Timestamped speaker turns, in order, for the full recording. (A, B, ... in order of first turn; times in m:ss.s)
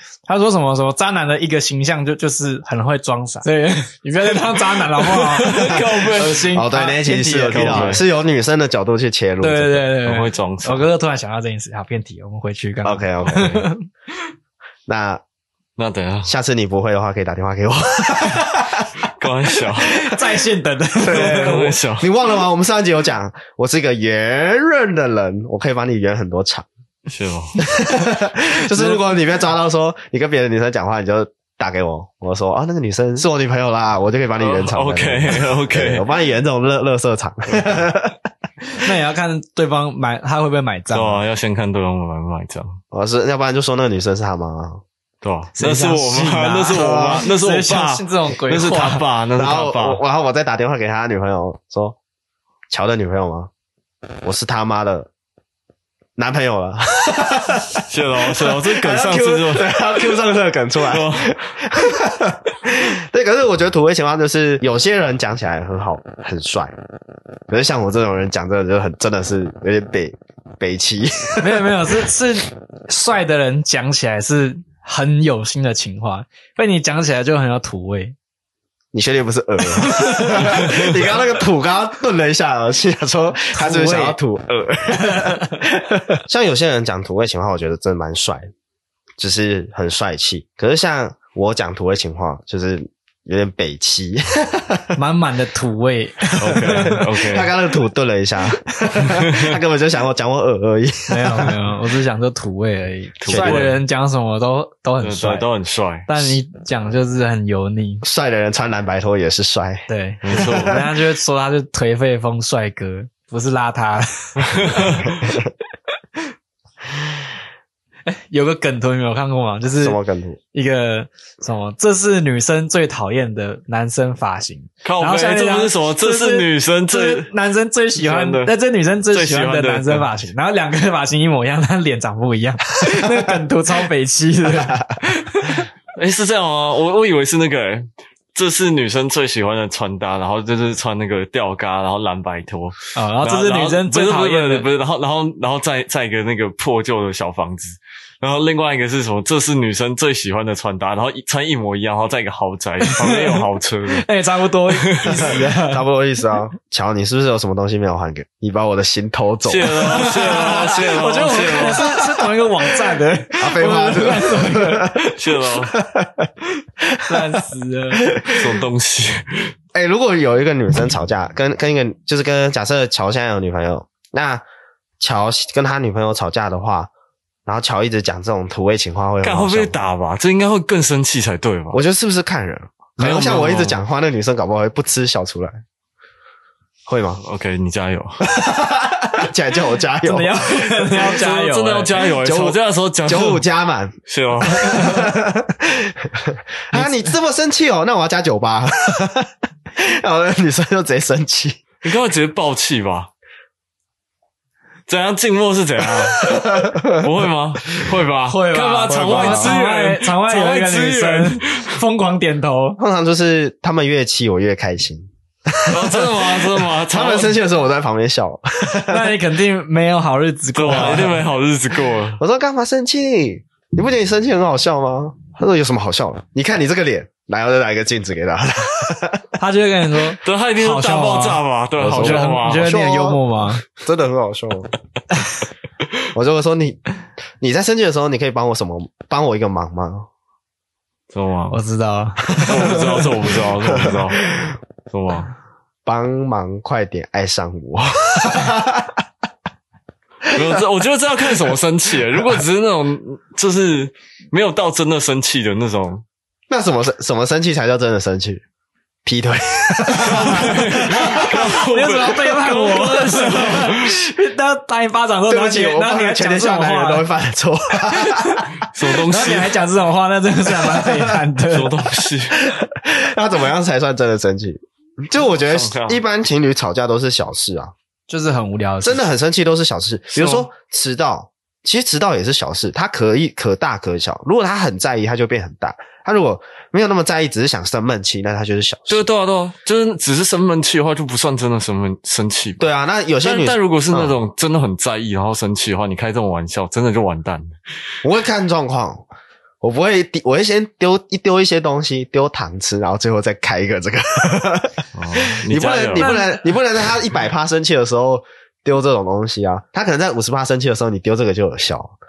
0:00.3-0:08.0 A
0:05.2-0:06.5 B
0:06.5-0:09.9 C
0:07.5-0:08.0 B
0:09.4-0:13.8 A
0:10.0-0:10.9 B
0:12.8-0:13.7 C
0:14.9-0:15.2 C
0:15.8-0:16.3 B
0:16.3-0:19.0 C
0:19.2-0:20.1 B
0:20.0-0:21.6 A
0:21.0-0:22.1 B
0:21.0-0:26.7 C
0:27.1-0:27.6 B
0:27.6-0:38.2 C
0:34.4-0:36.0 B
0:37.5-0:37.8 B
0:38.8-0:41.2 A
0:40.9-0:42.8 B
0:42.9-0:44.8 C
0:45.2-0:50.0 B
0:45.6-0:49.0 A
0:46.7-0:47.2 C
0:49.4-0:52.0 C
0:52.7-0:53.5 C
0:54.2-0:55.1 C
0:56.2-1:06.7 C
0:57.9-1:00.2 B
1:00.8-1:01.3 B
1:07.5-1:11.7 C
1:11.4-1:18.2 A
1:18.9-1:28.5 C
1:19.9-1:20.6 A
1:20.6-1:20.9 B
1:23.6-1:24.2 A
1:29.2-1:35.0 C
1:35.0-1:36.9 A
1:36.3-1:41.5 C
1:36.4-1:37.5 B
1:39.0-1:39.6 B
1:41.1-1:45.5 A
1:43.2-1:43.8 B
1:43.3-1:43.7 C
1:45.0-1:46.4 B
1:46.1-1:48.0 A
1:48.0-1:50.7 C
1:49.9-1:55.0 A
1:50.2-1:50.8 B
1:54.5-1:55.1 B
1:58.1-2:00.0 A
1:59.8-2:00.4 C
2:00.5-2:15.7 A
2:04.8-2:07.3 B
2:08.0-2:08.5 B
2:09.1-2:10.1 B
2:14.5-2:15.0 C
2:16.0-2:34.1 B
2:23.0-2:24.7 A
2:32.8-2:35.8 A
2:34.8-2:35.2 B
2:35.0-2:40.6 C
2:39.4-2:41.9 B
2:39.8-2:45.1 A
2:43.4-2:45.1 C
2:45.1-2:45.7 B
2:45.7-2:46.3 C
2:47.1-2:48.0 A
2:48.1-2:48.4 C
2:48.3-2:49.5 B
2:49.7-2:54.4 C
2:55.0-2:56.9 C
2:57.5-2:59.8 C
2:59.2-3:01.8 B
3:01.7-3:05.6 C
3:03.0-3:03.8 B
3:06.9-3:07.2 C
3:07.2-3:08.2 B
3:08.2-3:10.6 C
3:10.0-3:12.0 A
3:10.9-3:13.4 B
3:12.2-3:21.6 C
3:14.1-3:15.0 B
3:16.7-3:17.1 A
3:21.8-3:23.1 B
3:24.9-3:31.7 B
3:26.3-3:27.0 C
3:28.3-3:32.8 A
3:28.9-3:29.6 C
3:32.8-3:39.1 C
3:35.7-3:37.4 B
3:38.9-3:41.3 A
3:40.5-3:42.2 B
3:42.2-3:49.3 C
3:49.4-3:53.7 A
3:50.2-3:52.7 B
3:51.8-3:54.7 C
3:56.1-3:56.8 C
3:57.4-4:00.1 C
4:01.1-4:01.6 B
4:01.5-4:02.8 A
4:02.4-4:02.8 C
4:02.4-4:04.3 B
4:03.6-4:04.5 C
4:04.9-4:05.3 B
4:05.8-4:09.0 C
4:10.3-4:16.0 B
4:16.5-4:18.4 C
4:19.0-4:21.3 C
4:20.0-4:24.0 B
4:20.1-4:27.1 A
4:25.3-4:28.4 C
4:28.1-4:28.4 A
4:28.7-4:29.6 B
4:29.0-4:31.8 A
4:31.5-4:32.4 B
4:32.4-4:37.7 C
4:35.4-4:36.0 B
4:38.1-4:39.0 A
4:38.8-4:49.1 C
4:40.2-4:40.4 A
4:48.9-4:52.6 B
4:52.6-4:54.2 C
4:53.2-4:57.5 B
4:58.0-4:59.1 C
4:59.6-5:12.0 C
5:05.0-5:06.2 B
5:06.0-5:06.5 A